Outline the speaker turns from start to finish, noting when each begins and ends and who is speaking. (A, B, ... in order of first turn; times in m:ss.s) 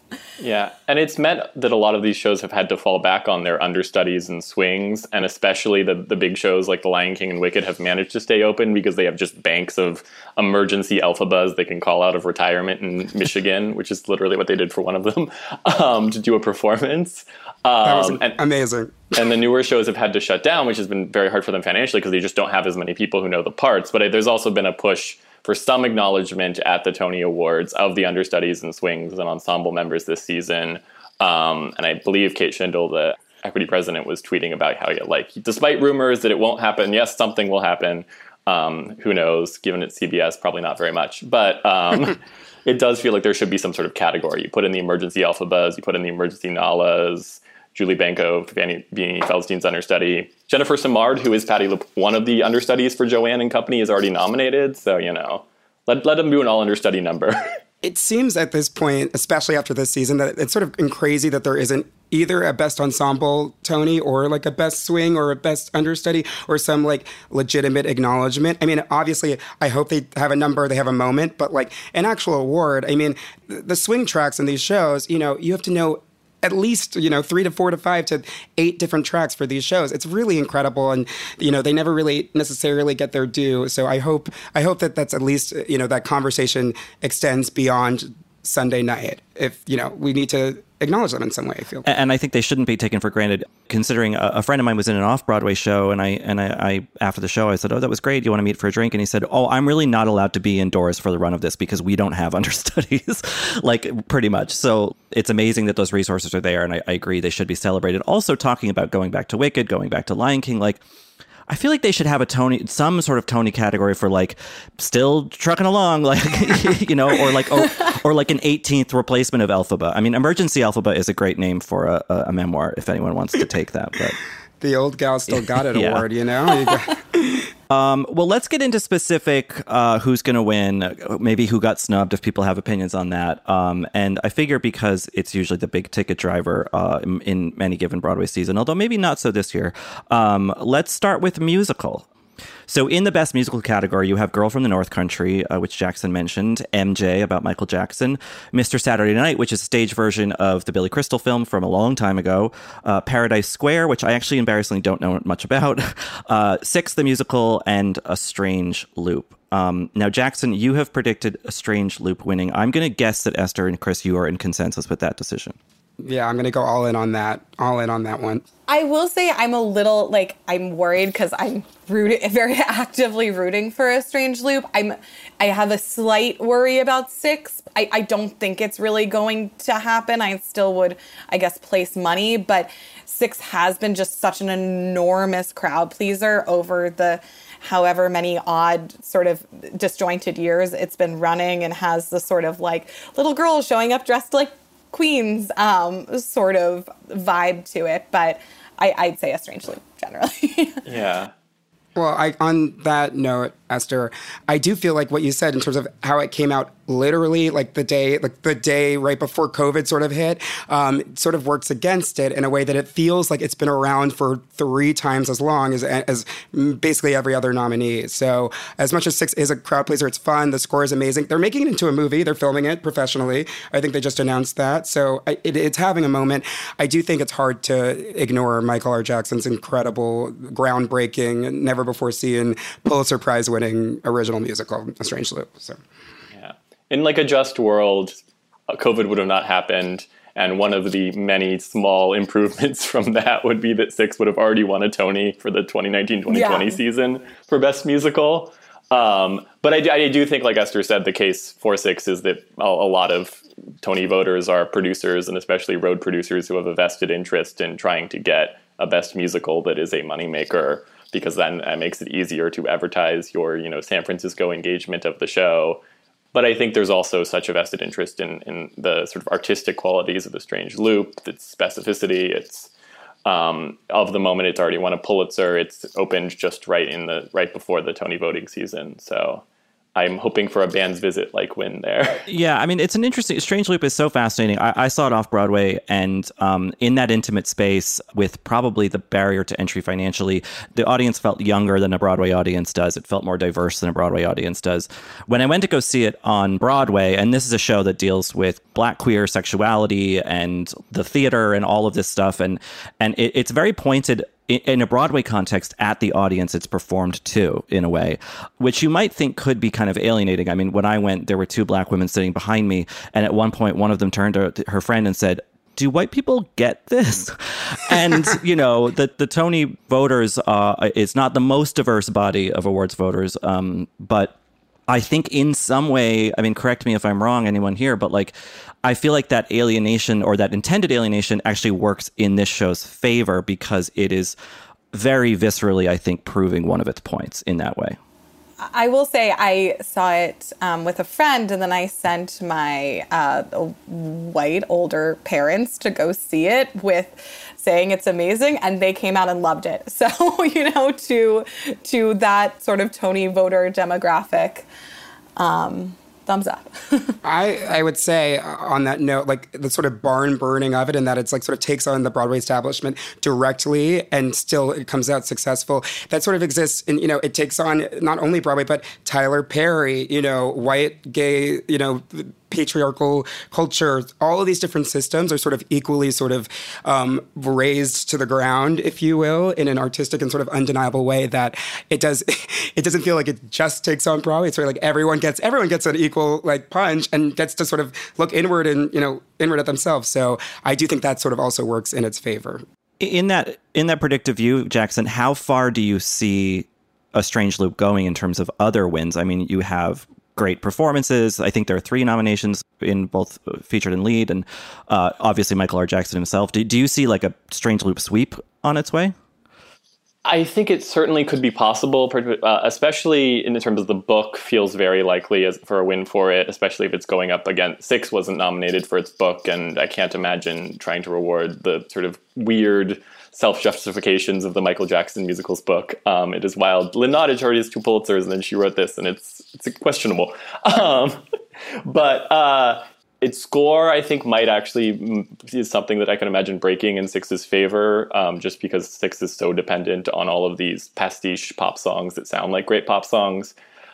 0:00.4-0:18.4 A
0:17.8-0:19.3 B
0:19.2-0:57.5 A
0:57.8-1:31.9 B
1:31.9-1:50.8 C
1:51.5-2:04.2 C
2:04.6-2:07.5 B
2:05.3-2:06.1 C
2:07.7-2:22.1 C
2:22.7-2:45.6 C
2:46.0-2:48.5 B
2:48.7-3:20.8 D
3:20.9-3:21.3 A
3:22.0-3:55.8 B
3:56.3-4:25.8 A
4:06.3-4:06.8 D
4:26.3-4:32.7 A
4:33.3-4:39.4 A
4:40.0-4:42.2 A
4:42.3-5:24.3 C
5:24.9-5:34.4 C
5:34.9-5:38.0 C
5:38.6-5:54.7 D
5:55.4-5:57.2 D
5:57.2-6:32.6 B
6:33.0-6:49.2 C
6:50.2-7:11.2 A
7:11.8-7:23.5 A